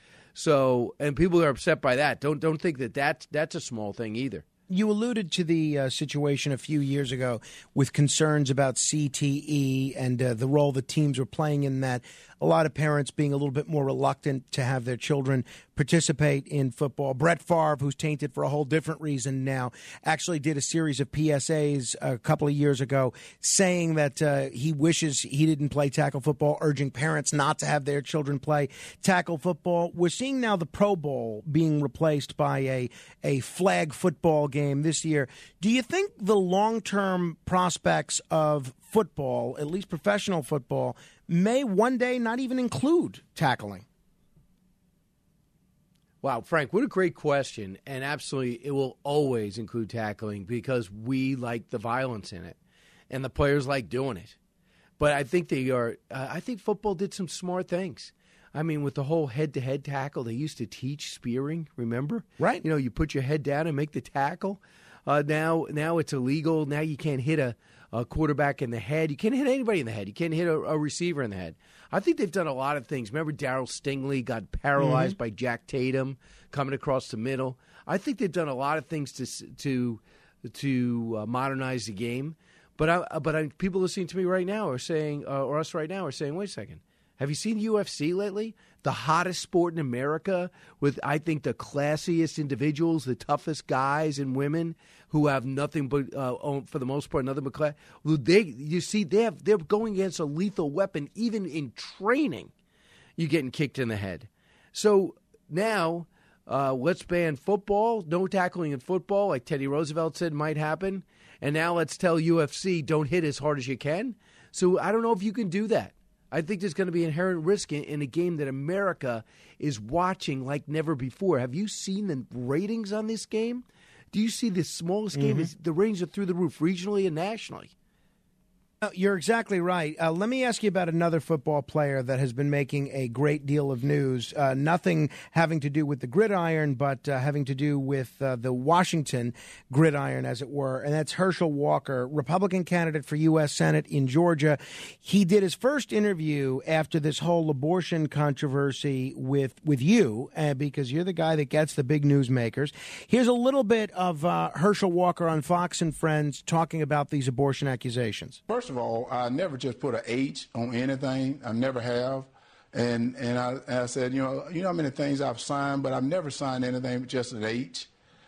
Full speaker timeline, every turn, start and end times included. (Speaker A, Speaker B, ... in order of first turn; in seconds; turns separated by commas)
Speaker A: 0.3-4.4, Speaker B: 4.7-43.9, Speaker A: 46.2-52.6, Speaker A: 53.1-54.4, Speaker A: 55.0-102.5, Speaker B: 74.8-75.2, Speaker A: 103.2-127.7, Speaker B: 125.2-125.5, Speaker B: 128.8-158.4, Speaker C: 158.5-167.9